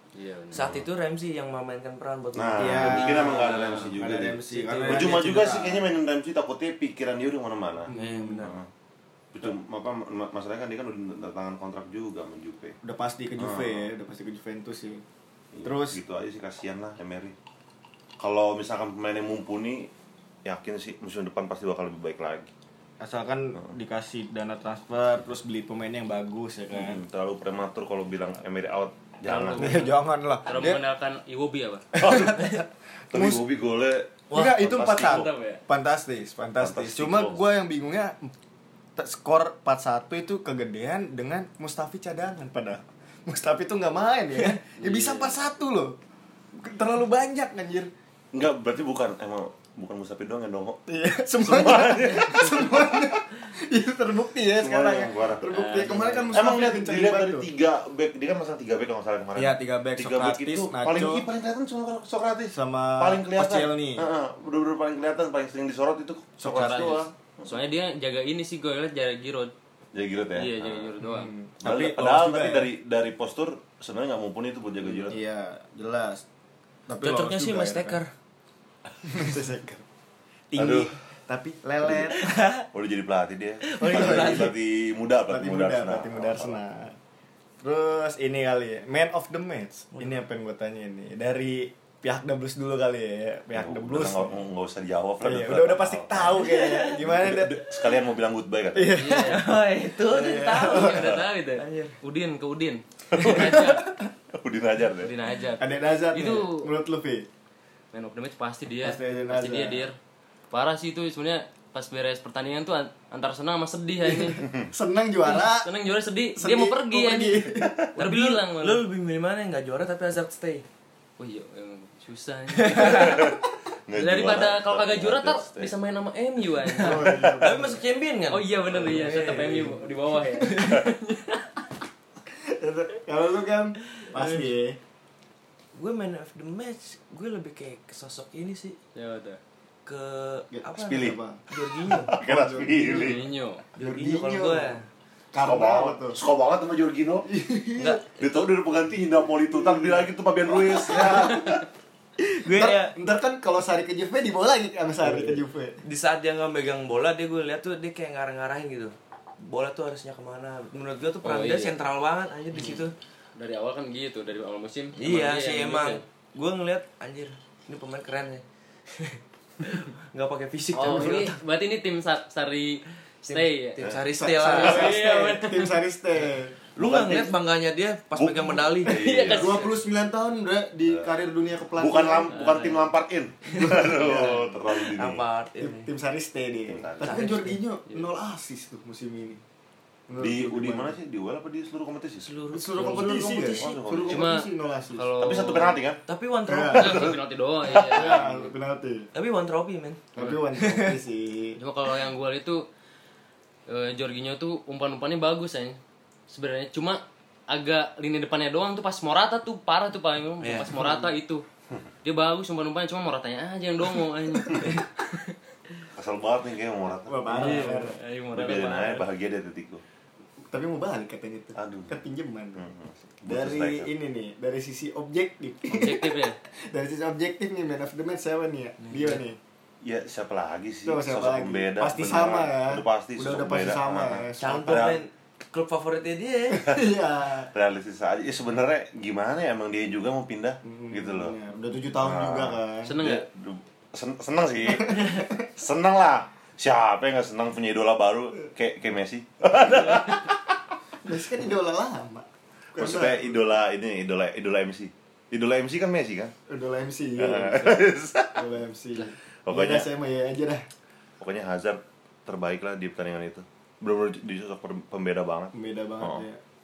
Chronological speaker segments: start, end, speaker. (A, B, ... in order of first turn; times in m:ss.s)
0:00.2-0:00.7 A
0:00.5-0:03.9 B
0:02.3-0:08.7 C
0:02.6-0:05.9 D
0:03.2-0:03.9 A
0:04.5-0:05.4 B
0:07.9-0:08.5 D
0:07.9-0:08.5 B
0:09.3-0:12.8 C
0:12.8-0:15.0 D
0:13.4-0:13.9 C
0:15.5-0:17.4 C
0:15.6-0:16.0 D
0:18.2-0:19.9 C
0:20.4-0:22.5 C
0:23.0-0:27.0 D
0:26.7-0:29.8 C
0:29.2-0:31.9 A
0:29.6-0:30.8 D
0:31.9-0:33.4 D
0:32.0-0:35.3 C
0:34.3-0:34.6 B
0:34.3-0:38.3 D
0:34.6-0:35.6 A
0:36.6-0:37.4 C
0:39.0-0:46.0 D
0:44.8-0:45.4 A
0:46.6-0:47.9 D
0:48.3-0:50.8 C
0:50.9-0:57.5 D
0:51.4-0:53.2 C
0:54.6-0:55.6 C
0:55.5-0:56.3 A
0:56.3-1:07.6 C
0:59.4-1:01.3 D
1:02.5-1:04.1 D
1:06.4-1:07.1 D
1:06.5-1:09.5 A
1:09.9-1:10.9 C
1:10.3-1:11.3 A
1:11.0-1:12.7 D
1:11.6-1:15.2 C
1:15.1-1:16.2 D
1:16.9-1:18.0 D
1:17.0-1:18.1 B
1:19.0-1:19.8 D
1:20.5-1:22.4 D
1:20.6-1:21.0 C
1:22.1-1:22.7 B
1:22.7-1:26.6 C
1:23.6-1:24.5 B
1:23.8-1:24.6 D
1:25.3-1:27.0 D
1:27.6-1:34.4 D
1:33.5-1:39.1 C
1:35.2-1:37.7 D
1:36.3-1:37.0 B
1:38.7-1:41.2 D
1:38.9-1:39.5 A
1:39.1-1:41.0 B
1:40.4-1:43.9 A
1:41.6-1:42.0 B
1:43.1-1:43.6 C
1:43.2-1:43.8 D
1:44.3-1:45.1 C
1:45.0-1:46.7 A
1:45.6-1:47.3 D
1:47.9-1:50.0 A
1:48.8-1:49.9 D
1:50.5-1:54.5 A
1:54.1-1:55.7 D
1:55.2-1:58.8 A
1:56.4-1:57.9 D
1:58.0-2:00.6 B
2:01.2-2:03.4 A
2:02.7-2:03.0 B
2:02.7-2:05.7 C
2:03.9-2:07.2 A
2:06.7-2:07.8 D
2:06.8-2:09.5 B
2:07.0-2:07.5 C
2:08.3-2:11.5 A
2:08.8-2:10.8 D
2:12.3-2:14.8 D
2:14.2-2:14.4 A
2:15.8-2:18.8 B
2:19.0-2:19.4 A
2:19.9-2:22.2 B
2:20.5-2:21.4 D
2:20.8-2:21.2 C
2:21.9-2:23.2 C
2:22.1-2:23.2 D
2:22.8-2:23.6 A
2:23.8-2:24.9 B
2:23.8-2:24.8 D
2:25.3-2:26.2 D
2:25.4-2:27.3 C
2:27.3-2:28.0 D
2:27.8-2:28.5 B
2:28.0-2:31.6 C
2:29.5-2:31.6 D
2:32.2-2:35.8 D
2:32.2-2:33.0 B
2:35.8-2:42.9 B
2:41.2-2:41.8 A
2:43.4-2:46.0 A
2:45.0-2:51.4 B
2:50.8-2:53.8 A
2:53.3-2:55.0 B
2:54.2-2:57.3 D
2:54.4-2:55.8 A
2:56.8-2:59.0 B
2:56.8-2:57.3 C
2:58.2-2:59.6 C
2:58.8-2:59.8 A
2:59.3-3:02.5 D
3:01.8-3:05.2 C
3:02.3-3:02.9 A
3:03.5-3:05.9 B
3:03.6-3:04.6 D
3:05.6-3:09.4 D
3:06.7-3:07.3 C
3:07.0-3:07.6 B
3:10.1-3:11.0 D
3:10.2-3:14.3 C
3:12.2-3:13.8 B
3:12.5-3:15.2 D
3:14.1-3:15.8 A
3:15.2-3:16.0 C
3:16.1-3:17.1 B
3:16.5-3:16.9 D
3:16.7-3:18.2 C
3:16.7-3:18.5 A
3:17.7-3:19.1 D
3:19.1-3:20.0 B
3:20.1-3:21.6 D
3:21.6-3:22.6 A
3:23.7-3:25.8 A
3:26.3-3:31.4 A
3:30.4-3:31.0 B
3:32.0-3:34.9 A
3:36.0-3:37.7 C
3:37.1-3:38.0 D
3:37.3-3:39.1 A
3:38.3-3:39.8 C
3:40.5-3:42.7 D
3:41.6-3:42.0 C
3:42.6-3:43.9 C
3:43.2-3:49.4 D
3:45.7-3:46.4 A
3:48.8-3:49.2 B
3:49.8-3:55.0 C
3:50.8-3:54.9 D
3:54.4-3:56.8 B
3:56.5-3:57.5 D
3:57.5-4:01.4 C
4:00.6-4:03.0 D
4:02.0-4:10.4 C
4:02.8-4:03.3 A
4:04.7-4:05.4 D
4:11.0-4:13.4 D
4:12.8-4:16.3 C
4:16.5-4:20.7 D
4:17.2-4:18.4 C
4:19.5-4:19.9 C
4:21.2-4:26.2 C
4:25.5-4:26.4 D